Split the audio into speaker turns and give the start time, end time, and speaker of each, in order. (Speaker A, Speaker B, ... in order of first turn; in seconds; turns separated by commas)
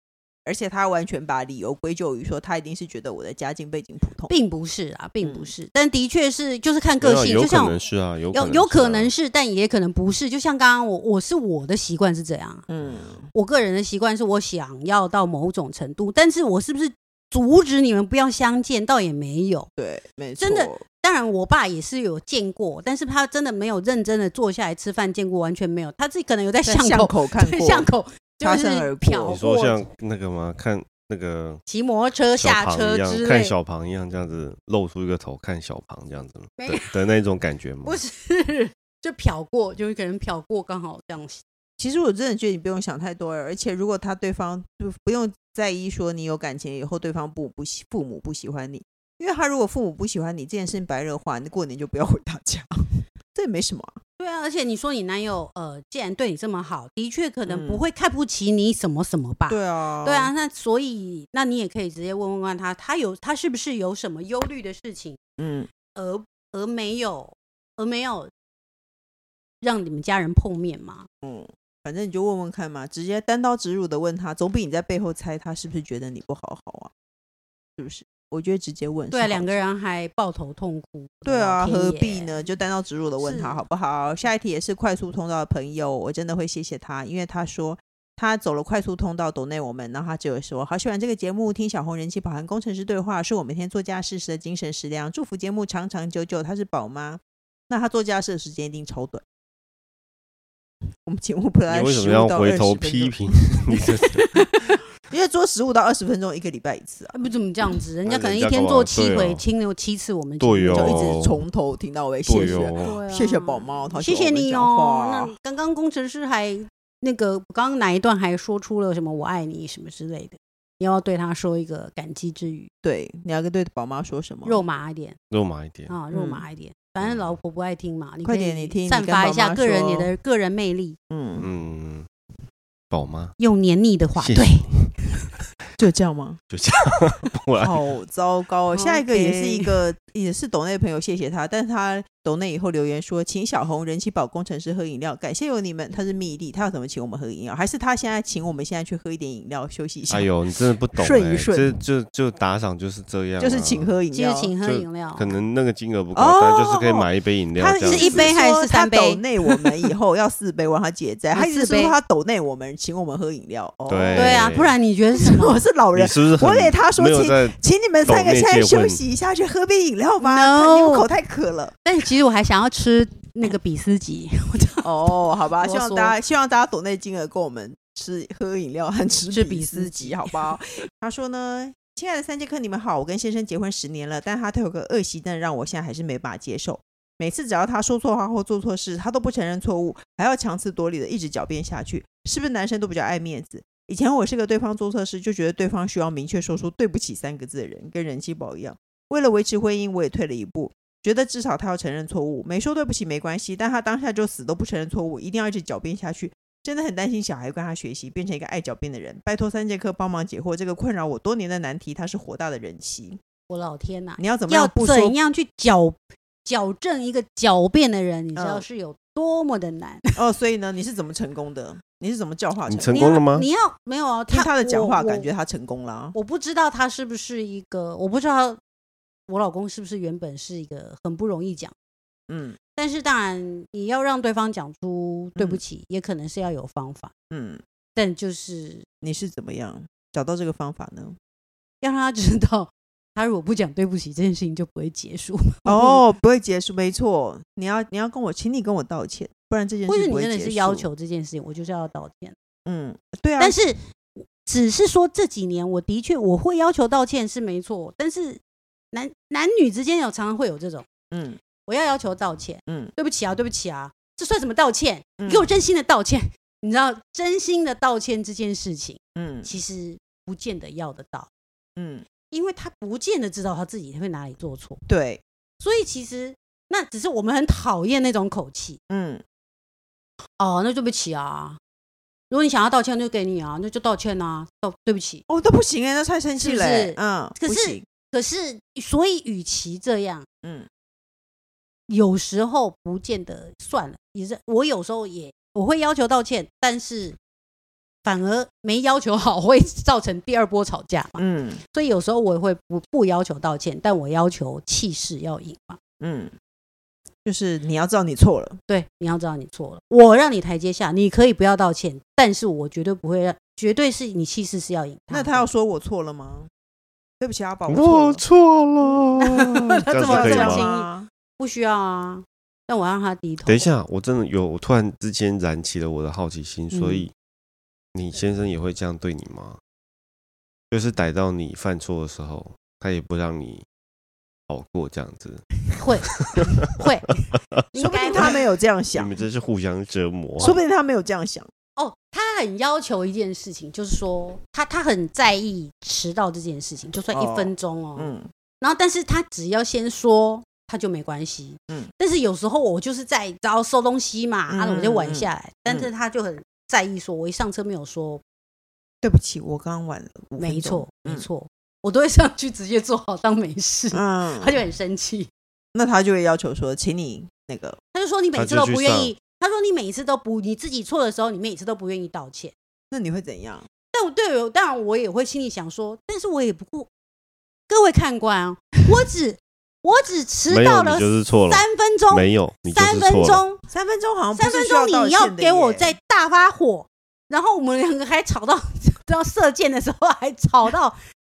Speaker A: 0.5-4.3, Speaker B: 4.3-12.7, Speaker A: 5.2-5.5, Speaker C: 7.0-9.1, Speaker A: 12.7-13.3, Speaker B: 13.3-19.7, Speaker A: 19.8-20.8, Speaker B: 20.4-29.9, Speaker A: 26.6-29.4, Speaker C: 29.2-31.6, Speaker B: 31.7-33.5, Speaker C: 32.3-38.0, Speaker B: 36.6-37.0, Speaker B: 37.9-41.4, Speaker A: 41.8-52.7, Speaker A: 53.3-53.9, Speaker B: 54.2-65.2, Speaker A: 57.5-57.9, Speaker A: 59.5-60.3, Speaker A: 65.4-65.7, Speaker B: 66.0-68.3, Speaker B: 69.6-71.1, Speaker A: 71.2-76.9, Speaker A: 77.8-79.6, Speaker B: 79.1-82.3, Speaker A: 81.2-99.2, Speaker B: 83.2-83.6, Speaker A: 101.1-103.2, Speaker C: 101.7-104.2, Speaker A: 105.0-107.2, Speaker B: 107.1-111.1, Speaker C: 108.0-109.4, Speaker C: 110.4-111.4, Speaker A: 110.7-115.3, Speaker C: 112.3-113.0, Speaker B: 112.3-122.7, Speaker A: 122.8-124.6, Speaker B: 124.5-125.2, Speaker C: 125.3-126.0, Speaker B: 125.9-131.0, Speaker A: 126.1-126.5, Speaker C: 127.0-127.4, Speaker A: 128.2-130.1, Speaker A: 131.1-131.5, Speaker C: 131.4-132.1, Speaker C: 132.9-133.3, Speaker B: 133.4-135.2, Speaker C: 134.2-134.9, Speaker A: 135.8-136.4, Speaker C: 136.5-137.7, Speaker A: 137.6-150.4, Speaker B: 138.7-139.8, Speaker C: 150.1-153.9, Speaker A: 151.0-151.8, Speaker A: 153.4-154.5, Speaker B: 154.1-155.4, Speaker C: 154.6-158.3, Speaker A: 156.1-164.5, Speaker B: 157.8-159.7, Speaker B: 161.3-162.0, Speaker C: 163.9-164.8, Speaker B: 164.1-165.6, Speaker A: 165.2-171.8, Speaker C: 165.9-169.0, Speaker B: 170.2-171.1, Speaker B: 171.8-176.2, Speaker A: 174.8-213.2, Speaker B: 179.3-180.6, Speaker B: 213.5-220.1, Speaker A: 214.2-215.2, Speaker A: 218.4-218.7, Speaker A: 220.2-223.2, Speaker C: 222.7-223.5, Speaker B: 222.9-225.3, Speaker A: 224.3-226.2, Speaker B: 226.1-228.6, Speaker B: 229.3-231.8, Speaker A: 232.3-232.6, Speaker B: 232.8-237.1, Speaker A: 235.4-235.6, Speaker A: 237.3-237.6, Speaker B: 238.0-238.9, Speaker A: 239.0-241.2, Speaker B: 241.8-246.0, Speaker A: 245.7-250.9, Speaker B: 249.9-252.4, Speaker A: 252.7-253.6, Speaker B: 253.4-258.4, Speaker B: 258.9-260.9, Speaker A: 261.1-261.4, Speaker B: 261.6-271.3, Speaker A: 262.7-262.9, Speaker A: 265.2-265.5, Speaker A: 269.1-269.5, Speaker A: 271.8-272.1, Speaker B: 272.3-274.8, Speaker A: 274.9-275.2, Speaker B: 275.6-278.8, Speaker A: 278.9-279.2, Speaker B: 280.4-281.6, Speaker B: 282.3-285.2, Speaker A: 285.3-287.9, Speaker B: 286.4-290.3, Speaker B: 291.9-297.2, Speaker B: 298.0-305.8, Speaker A: 301.2-301.6, Speaker A: 306.0-306.3, Speaker A: 307.2-308.6, Speaker B: 308.7-315.5, Speaker A: 315.1-316.5, Speaker A: 317.2-318.2, Speaker C: 317.7-320.7, Speaker B: 319.5-323.7, Speaker A: 319.9-321.1, Speaker C: 323.5-327.1, Speaker B: 326.7-327.1, Speaker C: 327.9-329.6, Speaker C: 330.7-333.6, Speaker C: 334.5-335.6, Speaker B: 335.7-336.1, Speaker C: 336.1-336.6, Speaker B: 336.7-337.1, Speaker B: 337.7-338.4, Speaker A: 337.8-339.1, Speaker C: 338.9-340.6, Speaker A: 340.4-341.5, Speaker B: 341.8-358.2, Speaker A: 347.1-348.3, Speaker A: 354.5-355.9, Speaker A: 359.0-361.3, Speaker B: 360.4-365.3, Speaker A: 363.9-364.6, Speaker A: 365.7-367.8, Speaker B: 367.9-372.5, Speaker C: 368.4-369.1, Speaker A: 372.9-373.7, Speaker B: 373.9-376.9, Speaker B: 377.7-383.6, Speaker C: 380.5-383.4, Speaker A: 383.7-386.0, Speaker B: 384.3-391.0